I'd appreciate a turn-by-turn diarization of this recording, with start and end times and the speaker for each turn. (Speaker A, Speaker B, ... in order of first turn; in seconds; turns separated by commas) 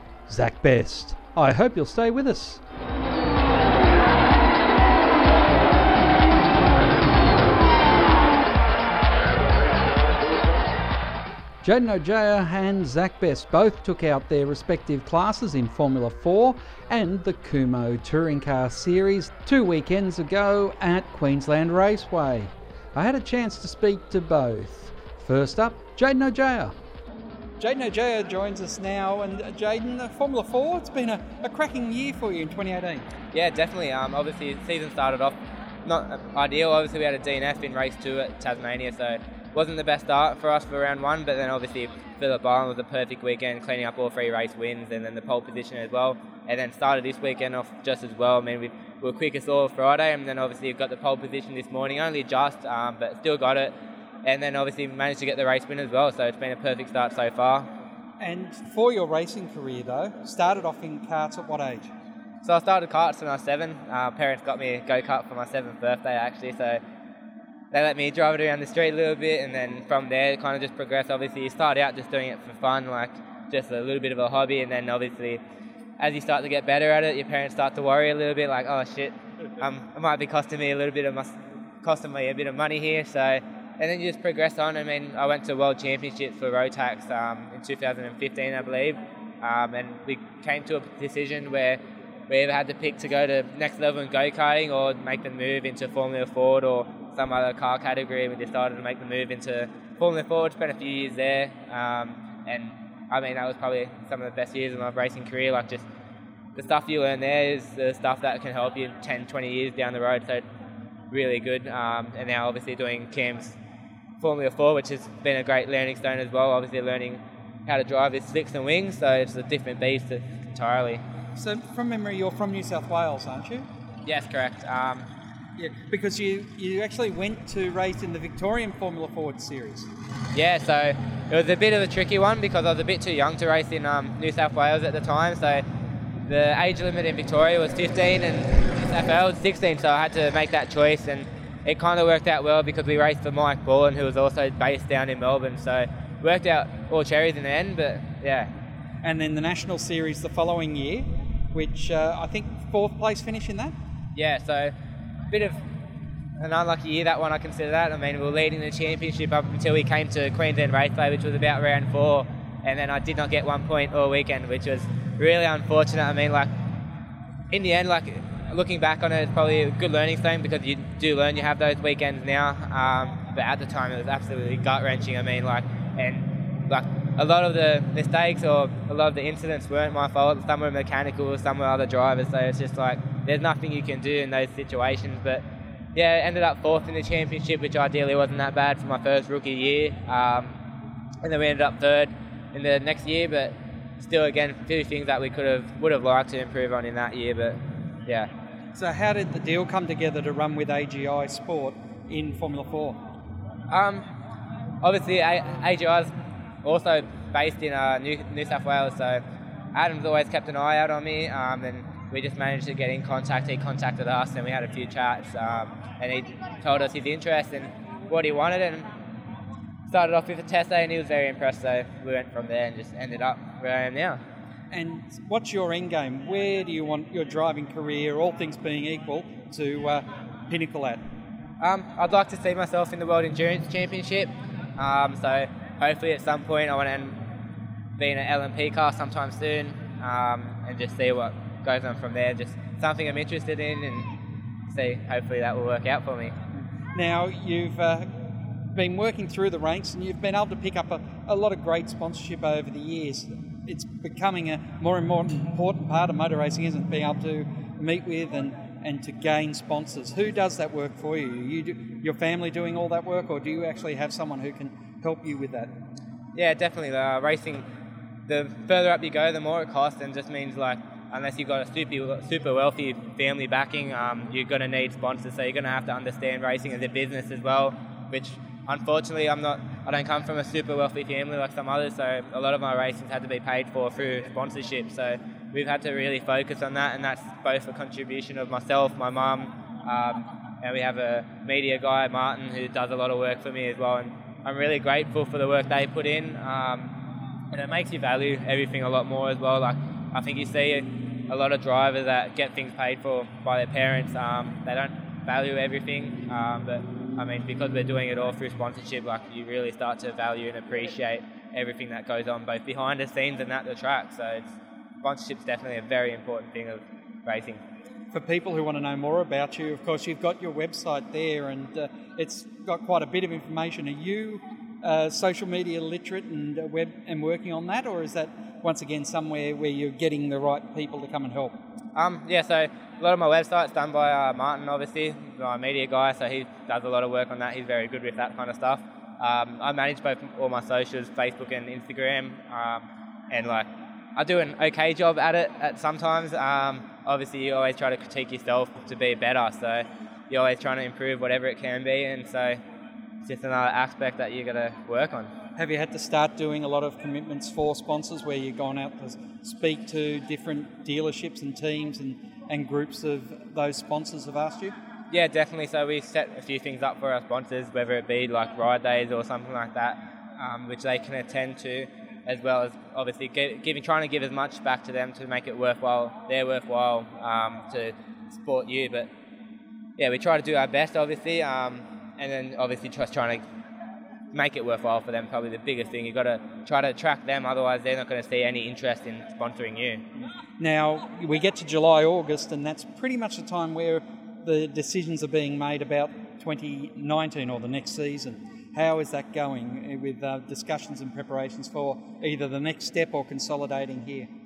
Speaker A: 0.3-2.6, Speaker A: 11.6-26.8, Speaker A: 27.6-33.1, Speaker B: 33.3-53.7, Speaker B: 54.2-57.7, Speaker A: 58.2-61.9, Speaker B: 62.4-66.8, Speaker B: 67.7-75.4, Speaker B: 76.0-105.9, Speaker B: 106.5-110.5, Speaker B: 111.1-113.6, Speaker B: 114.2-121.0, Speaker A: 121.4-123.7, Speaker B: 124.1-125.1, Speaker A: 125.6-129.9, Speaker B: 130.3-135.6, Speaker B: 136.3-148.5, Speaker A: 149.0-153.8, Speaker B: 154.2-154.7, Speaker B: 155.3-155.6, Speaker B: 156.4-166.5, Speaker B: 167.5-185.4, Speaker B: 185.9-190.6, Speaker B: 191.2-198.3, Speaker A: 198.8-203.0, Speaker B: 203.7-204.0, Speaker B: 204.8-206.1, Speaker B: 206.6-209.2, Speaker B: 209.8-218.9, Speaker B: 219.9-224.2, Speaker A: 224.7-231.0, Speaker B: 231.6-237.2, Speaker B: 238.0-244.1, Speaker B: 244.7-246.3, Speaker A: 246.9-248.1, Speaker A: 248.7-265.7, Speaker B: 266.4-267.6, Speaker B: 268.3-296.9, Speaker B: 297.5-317.6, Speaker A: 318.1-331.6, Speaker B: 331.9-352.6, Speaker B: 353.2-355.3, Speaker A: 355.6-364.7, Speaker B: 365.1-379.1, Speaker B: 380.0-383.4, Speaker B: 384.3-390.0, Speaker A: 390.6-404.3